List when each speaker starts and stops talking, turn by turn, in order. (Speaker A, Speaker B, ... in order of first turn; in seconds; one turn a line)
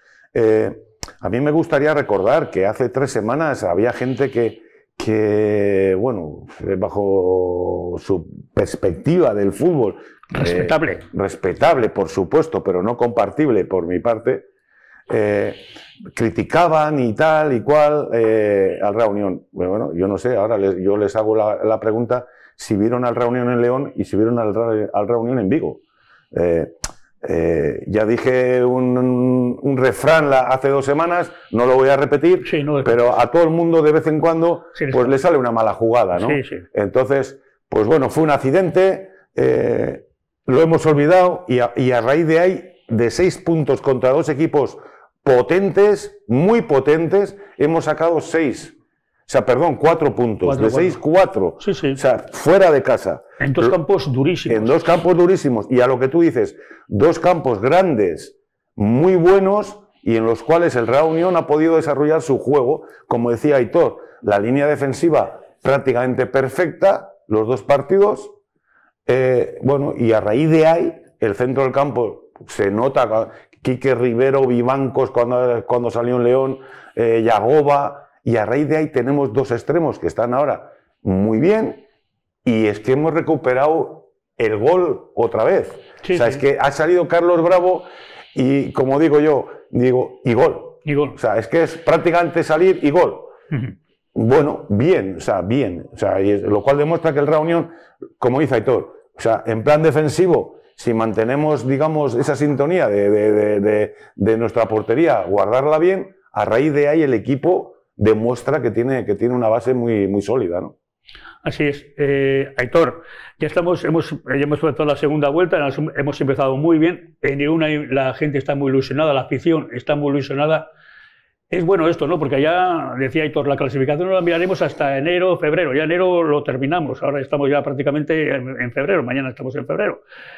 Speaker A: 0.3-14.5
Speaker B: 10.3-11.1
Speaker A: 15.1-15.6
Speaker A: 16.1-25.8
Speaker A: 26.3-48.8
Speaker B: 32.4-33.0
Speaker B: 34.8-35.1
Speaker B: 36.2-36.6
Speaker A: 49.3-53.8
Speaker B: 50.4-51.0
Speaker B: 51.6-52.0
Speaker B: 53.4-54.8
Speaker A: 54.5-68.3
Speaker A: 69.1-81.8
Speaker A: 82.5-93.3
Speaker B: 86.0-86.4
Speaker B: 90.8-91.2
Speaker A: 94.2-110.8
Speaker B: 111.4-120.7
Speaker B: 121.5-130.0